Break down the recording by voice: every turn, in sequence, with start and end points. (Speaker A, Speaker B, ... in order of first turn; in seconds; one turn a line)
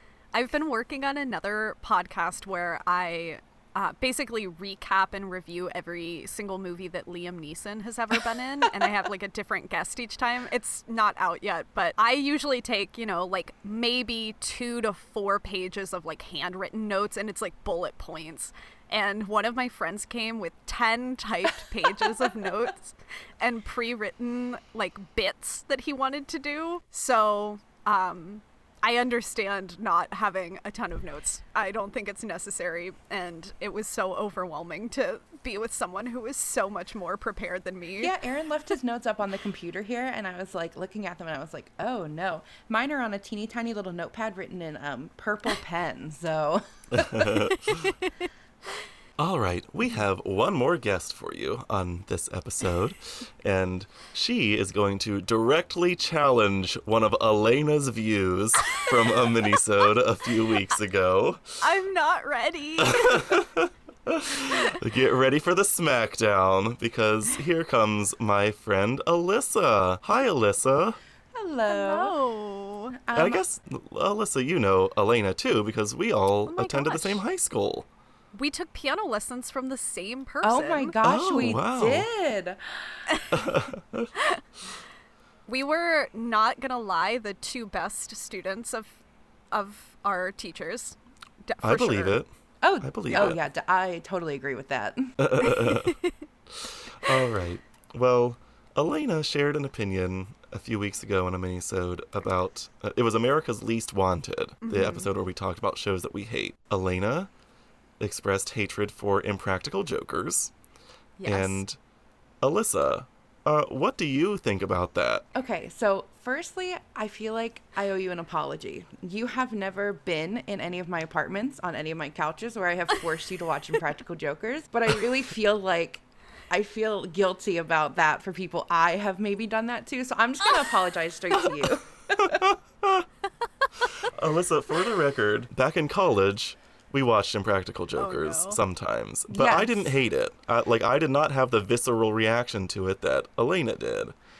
Speaker A: 0.3-38.1
Speaker B: 38.0-47.5
Speaker C: 46.9-47.9
Speaker C: 49.2-61.5
Speaker A: 61.6-63.4
Speaker C: 62.9-71.0
Speaker A: 64.5-64.7
Speaker B: 71.3-72.2
Speaker A: 71.7-72.9
Speaker B: 73.0-73.4
Speaker C: 73.1-77.9
Speaker A: 76.5-77.2
Speaker A: 78.3-81.0
Speaker B: 80.4-83.2
Speaker C: 81.0-82.1
Speaker C: 83.3-84.1
Speaker A: 85.5-89.0
Speaker A: 89.5-92.2
Speaker C: 91.6-92.3
Speaker B: 92.6-95.5
Speaker C: 92.8-93.4
Speaker A: 93.1-93.4
Speaker C: 95.2-96.0
Speaker A: 95.4-96.1
Speaker C: 96.6-107.3
Speaker A: 104.6-105.1
Speaker C: 108.0-110.5
Speaker A: 111.2-111.6
Speaker C: 111.2-111.8
Speaker C: 112.4-115.2
Speaker B: 115.3-132.4
Speaker C: 132.2-133.1
Speaker C: 134.1-144.1
Speaker A: 137.9-138.6
Speaker B: 139.3-139.9